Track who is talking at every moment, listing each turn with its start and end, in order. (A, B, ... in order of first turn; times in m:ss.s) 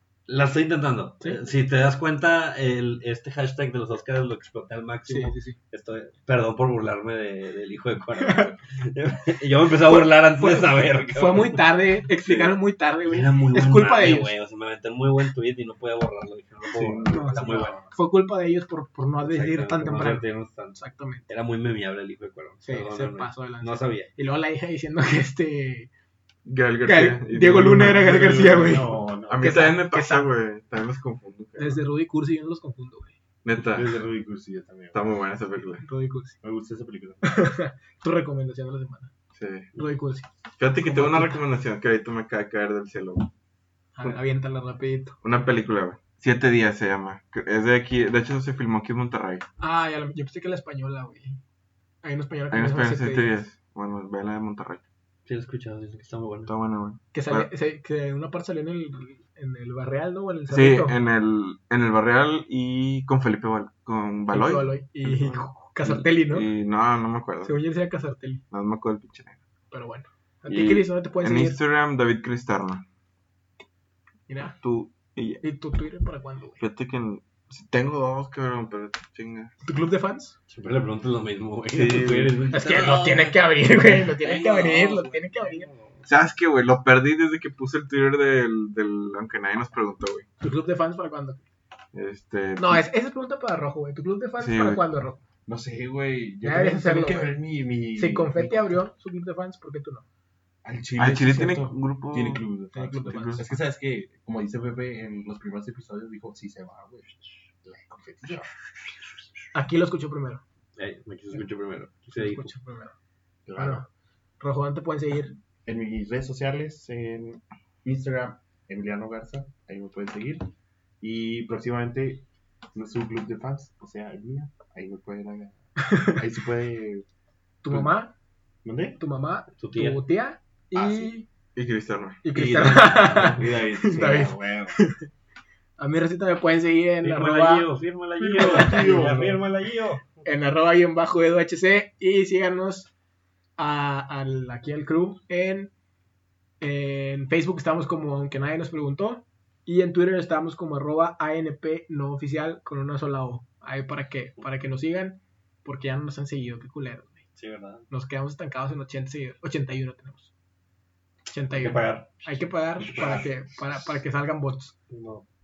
0:00.3-0:11.7 A
0:05.1-0:05.6 B
0:08.2-0:08.5 B
0:09.8-0:14.3 B
0:12.2-0:12.6 C
0:13.1-0:17.8 A
0:16.7-0:17.5 C
0:17.1-0:21.3 B
0:17.3-0:17.9 D
0:19.2-0:24.1 A
0:22.6-0:25.9 B
0:26.5-0:31.8 C
0:26.8-0:30.3 B
0:28.0-0:29.8 D
0:31.6-0:33.2 B
0:33.4-0:34.0 C
0:33.6-0:35.0 D
0:34.9-0:35.8 C
0:35.6-0:36.4 B
0:36.4-0:37.3 D
0:37.2-0:39.1 B
0:39.3-0:39.7 C
0:39.8-0:41.4 B
0:40.6-0:43.3 C
0:44.0-0:45.2 B
0:45.2-0:49.4 C
0:49.6-0:51.4 B
0:52.0-0:53.4 B
0:52.5-0:54.8 C
0:55.3-0:56.5 A
0:56.5-0:57.5 C
0:57.1-1:01.0 B
1:00.5-1:07.5 C
1:04.3-1:06.5 B
1:07.4-1:08.4 B
1:08.5-1:09.4 C
1:09.7-1:11.6 B
1:10.5-1:12.8 C
1:14.3-1:14.6 B
1:14.6-1:15.4 C
1:15.4-1:16.6 B
1:16.6-1:19.5 C
1:19.6-1:20.4 B
1:20.5-1:26.1 A
1:21.7-1:22.4 C
1:22.5-1:25.7 B
1:26.1-1:30.3 C
1:30.4-1:31.4 B
1:31.9-1:32.8 C
1:32.6-1:35.2 B
1:34.4-1:34.8 C
1:35.5-1:38.8 D
1:36.4-1:37.4 B
1:38.0-1:40.0 B
1:40.6-1:48.5 D
1:41.0-1:42.5 C
1:42.7-1:43.4 B
1:43.1-1:43.4 C
1:49.5-1:50.4 B
1:50.8-1:52.5 A
1:52.2-1:52.9 B
1:53.5-1:53.8 D
1:53.6-1:53.9 B
1:54.4-1:55.3 B
1:55.6-2:00.5 D
2:01.0-2:07.0 D
2:05.9-2:06.1 B
2:07.6-2:08.1 B
2:08.6-2:09.0 D
2:09.0-2:11.3 B
2:09.6-2:10.0 A
2:10.8-2:11.1 D
2:11.6-2:12.2 C
2:12.2-2:15.1 B
2:12.3-2:13.5 A
2:13.2-2:14.8 D
2:15.8-2:17.7 B
2:17.0-2:20.2 A
2:18.2-2:19.4 D
2:20.2-2:22.9 B
2:23.6-2:25.7 B
2:26.6-2:37.2 B
2:37.4-2:37.9 A
2:37.9-2:40.3 B
2:41.3-2:44.8 B
2:41.5-2:42.2 A
2:42.8-2:43.3 D
2:43.0-2:43.3 A
2:44.9-2:45.2 A